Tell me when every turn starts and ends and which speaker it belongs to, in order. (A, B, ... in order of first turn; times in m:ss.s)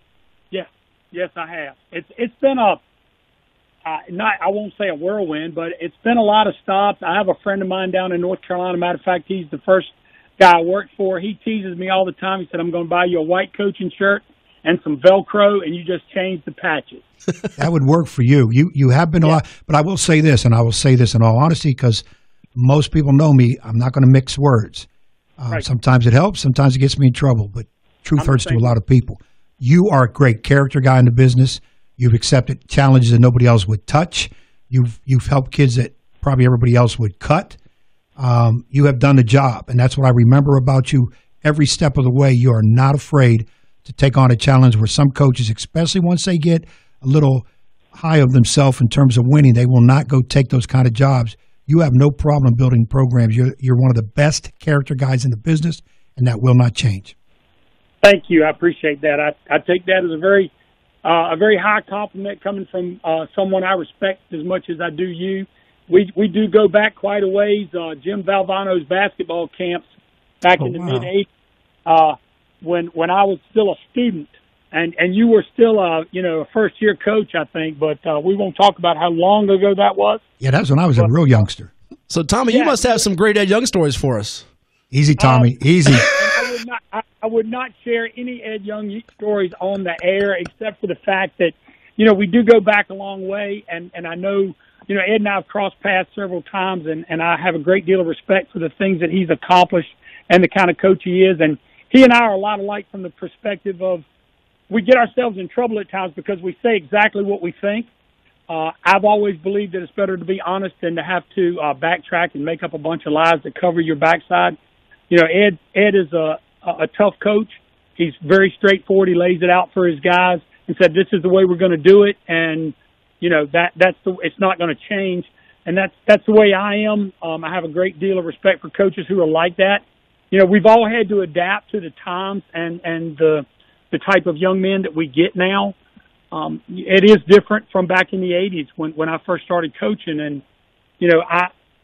0:00.5-0:02.8 A
0:03.8-0:17.0 A
0:17.6-0:22.0 B
0:22.6-0:24.9 B
0:25.4-0:37.6 B
0:28.2-0:28.7 A
0:38.2-0:57.1 B
0:58.0-1:00.5 A
1:01.0-1:09.8 A
1:10.4-1:11.3 A
1:10.6-1:11.1 B
1:11.9-1:20.2 A
1:20.4-1:21.7 B
1:21.0-1:21.3 A
1:22.1-1:24.5 C
1:22.5-1:23.0 A
1:24.9-1:26.1 B
1:25.2-1:44.0 A
1:44.7-1:47.9 A
1:48.5-1:54.6 A
1:55.1-2:15.8 A
2:16.3-2:20.4 A
2:21.0-2:21.5 A